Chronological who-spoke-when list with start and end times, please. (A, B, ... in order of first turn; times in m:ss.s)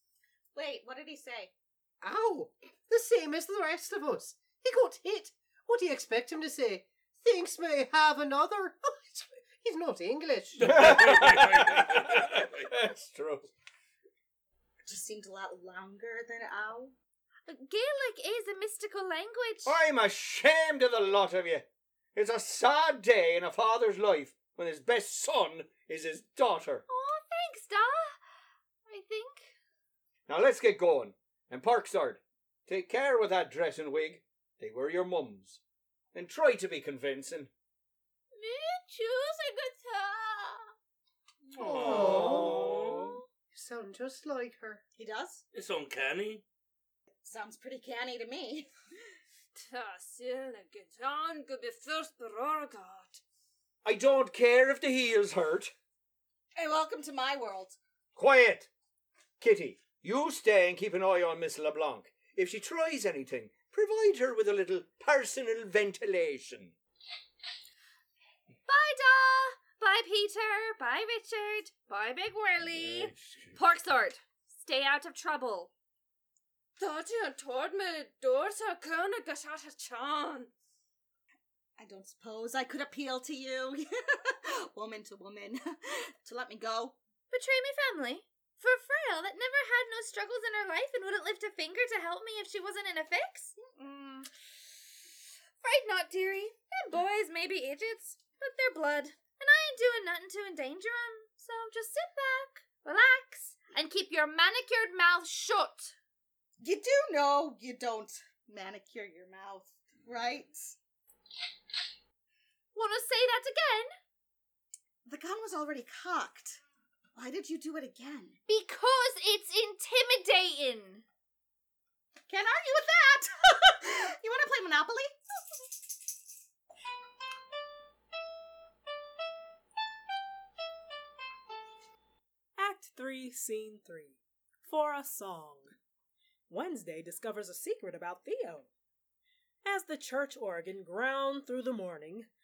0:00.5-0:01.5 A
0:02.0-0:11.1 B
0:10.6-0:12.7 C
0:10.6-0:13.5 D
0:14.8-0:16.9 A
0:17.5-0:19.7 E
0:19.6-0:26.8 D
0:26.9-0:28.2 E
0:28.9-0:29.5 E
0:30.3-0:35.6 D
0:36.1-0:37.5 D
0:38.4-0:40.6 E
0:41.6-0:44.8 B
0:41.6-0:42.9 C
0:45.0-0:45.4 A
0:45.5-0:46.4 C
0:47.2-0:48.7 A
0:49.6-0:53.2 F
0:53.8-0:55.7 D
0:56.6-0:57.8 A
0:58.1-0:58.7 D
0:59.4-1:06.7 D
1:08.7-1:15.7 E
1:12.6-1:13.5 D
1:16.8-1:20.5 F
1:21.8-1:27.0 A
1:27.3-1:34.3 E
1:35.6-1:45.9 E
1:46.6-1:50.8 A
1:52.7-1:53.9 E
1:55.0-1:56.6 A
1:57.1-1:58.4 A
1:58.5-2:01.0 E
2:02.3-2:05.2 A
2:12.6-2:15.7 G
2:16.5-2:18.7 G
2:19.6-2:22.3 G